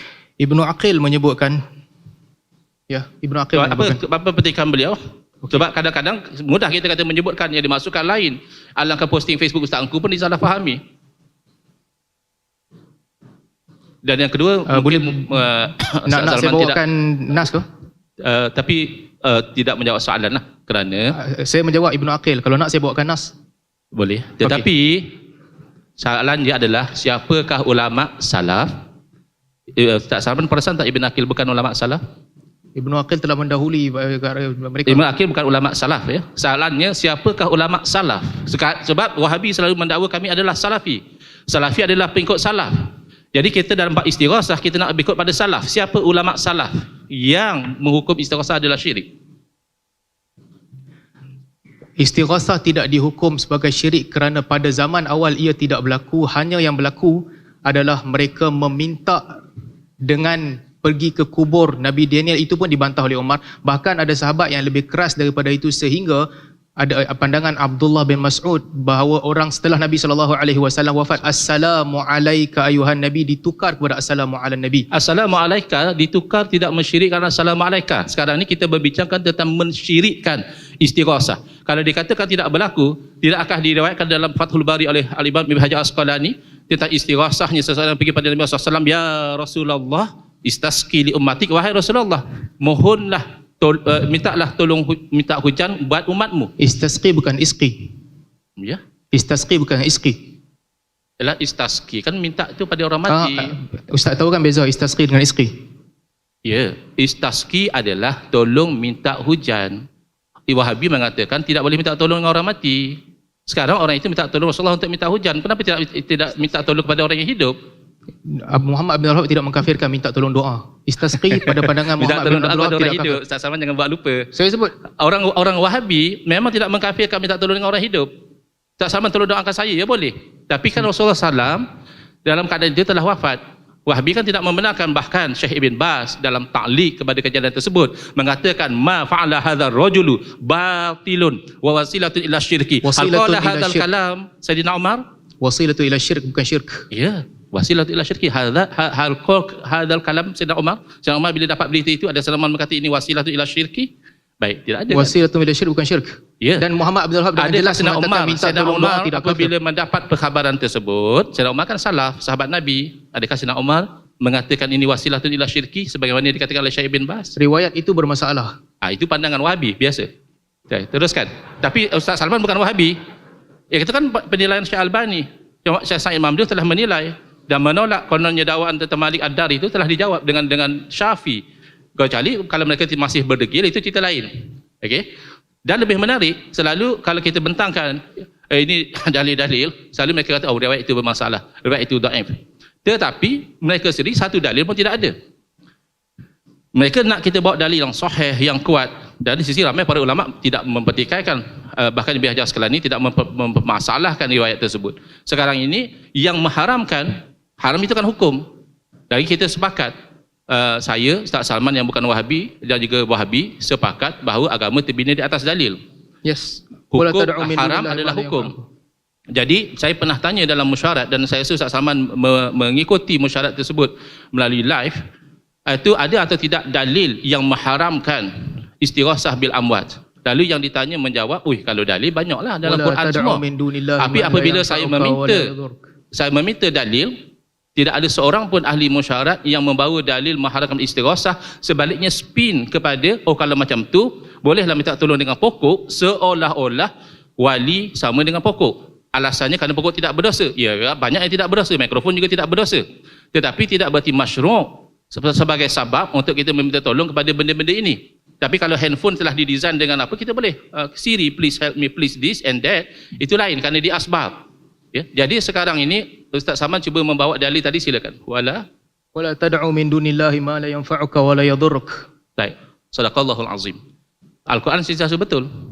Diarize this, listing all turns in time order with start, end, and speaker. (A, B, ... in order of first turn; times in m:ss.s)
0:00.4-0:01.6 A
0:02.9-0:04.0 A
0:03.6-0:05.0 B
0:05.5-0:10.8 B
0:14.0-0:16.8 B
0:14.7-0:15.3 A
0:16.1-0:17.6 A
0:18.2-0:21.2 B
0:21.2-0:23.3 A
0:24.0-0:25.2 B
0:26.0-0:28.7 B
0:29.8-0:32.0 B
0:32.8-0:35.0 A
0:34.9-0:49.1 B
0:52.0-0:59.4 A
1:00.0-1:06.2 A
1:06.8-1:14.9 A
1:14.9-1:36.5 B
1:36.6-1:37.9 A
1:39.1-1:40.2 A
1:41.2-1:43.5 B
1:43.1-1:45.5 A
1:46.4-1:49.8 B
1:50.5-1:57.6 B
1:58.3-2:03.2 A
2:01.3-2:04.3 B
2:04.3-2:04.7 A
2:05.0-2:08.1 B
2:08.8-2:11.7 B
2:12.2-2:25.0 B
2:22.8-2:23.9 A
2:25.4-2:26.9 A
2:26.9-2:33.9 B
2:34.4-2:35.1 B
2:34.9-2:39.5 A
2:37.4-2:47.3 B
2:47.4-2:48.5 A
2:48.8-2:50.1 B
2:50.7-2:53.0 B
2:53.7-3:01.4 B
3:02.0-3:05.0 B
3:05.7-3:15.1 B
3:16.8-3:28.4 B
3:29.1-3:29.9 B
3:30.5-3:35.8 B
3:36.2-3:38.6 A
3:36.9-3:38.5 B
3:39.3-3:45.0 B
3:45.7-3:48.3 B
3:48.8-3:53.4 B
3:52.6-3:55.8 A
3:54.0-3:55.5 B
3:56.1-3:57.1 B
3:57.8-4:28.6 B
4:29.2-4:32.0 A
4:32.4-4:33.8 B
4:34.5-4:35.5 B